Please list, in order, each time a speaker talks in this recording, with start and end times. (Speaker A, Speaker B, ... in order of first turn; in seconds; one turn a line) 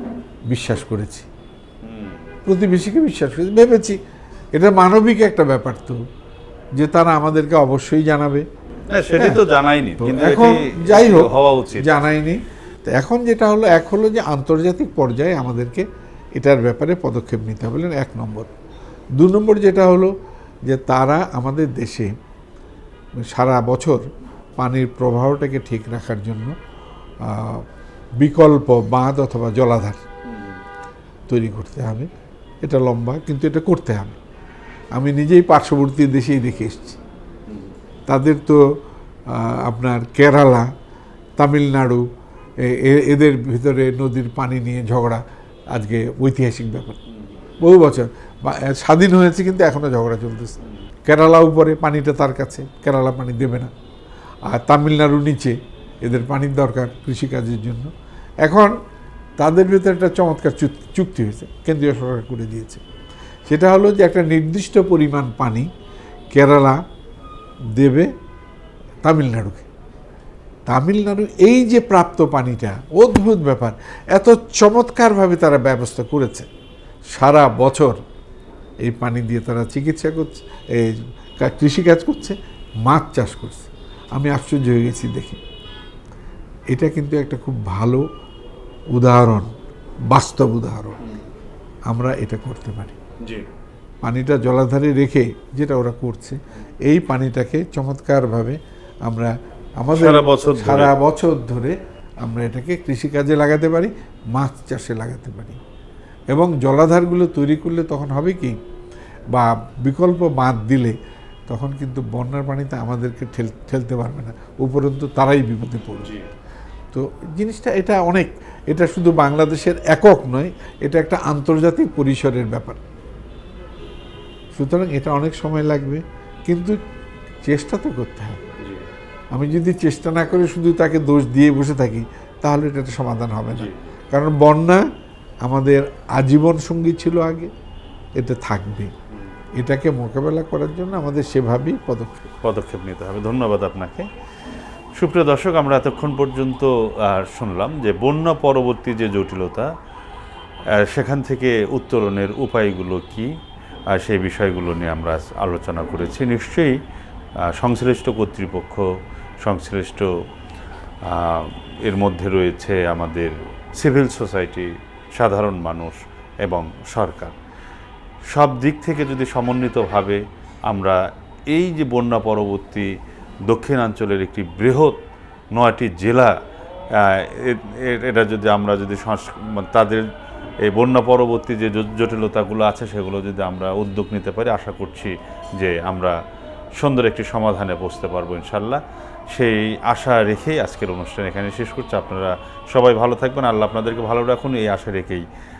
Speaker A: 0.5-1.3
Speaker B: 1.8-2.3
Speaker A: 2.5-4.0
Speaker A: 4.5-6.0
Speaker A: 6.8-8.5
Speaker B: 8.9-11.9
Speaker A: 10.0-15.8
Speaker A: 16.4-18.5
Speaker A: 19.2-20.1
Speaker A: 20.7-22.1
Speaker A: 23.2-26.6
Speaker A: 27.2-27.6
Speaker A: 28.2-30.0
Speaker B: 30.3-30.6
Speaker A: 31.3-32.1
Speaker A: 32.6-34.2
Speaker A: 35.0-37.0
Speaker B: 37.5-37.8
Speaker A: 38.1-38.6
Speaker A: 39.3-40.7
Speaker A: 41.4-42.0
Speaker A: 42.6-47.0
Speaker B: 47.1-47.5
Speaker A: 47.6-50.5
Speaker B: 50.6-50.9
Speaker A: 51.1-53.7
Speaker A: 54.5-57.9
Speaker A: 58.4-58.8
Speaker A: 59.4-62.8
Speaker A: 63.5-65.7
Speaker A: 66.3-66.8
Speaker A: 67.8-68.1
Speaker A: 69.0-69.7
Speaker A: 70.7-76.5
Speaker A: 77.1-78.0
Speaker A: 78.8-85.4
Speaker A: 86.7-88.0
Speaker A: 88.9-89.5
Speaker A: 90.1-91.0
Speaker A: 91.9-93.0
Speaker A: 94.0-105.6
Speaker B: 99.9-100.9
Speaker A: 106.3-108.6
Speaker A: 109.3-111.0
Speaker A: 111.5-116.1
Speaker B: 116.0-116.3
Speaker A: 116.9-122.8
Speaker A: 124.5-126.8
Speaker A: 127.5-128.4
Speaker B: 128.6-128.9
Speaker A: 129.3-134.9
Speaker B: 133.5-133.9
Speaker A: 135.4-137.5
Speaker A: 138.2-138.9
Speaker A: 139.6-142.3
Speaker B: 142.4-144.1
Speaker B: 145.0-149.7
Speaker B: 150.7-153.3
Speaker B: 153.9-156.8
Speaker B: 157.4-158.9
Speaker B: 159.4-160.1
Speaker B: 161.0-167.3
Speaker B: 168.3-172.9
Speaker B: 173.5-175.0
Speaker B: 175.5-176.4
Speaker B: 177.0-180.1
Speaker B: 180.6-186.2
Speaker B: 186.8-195.3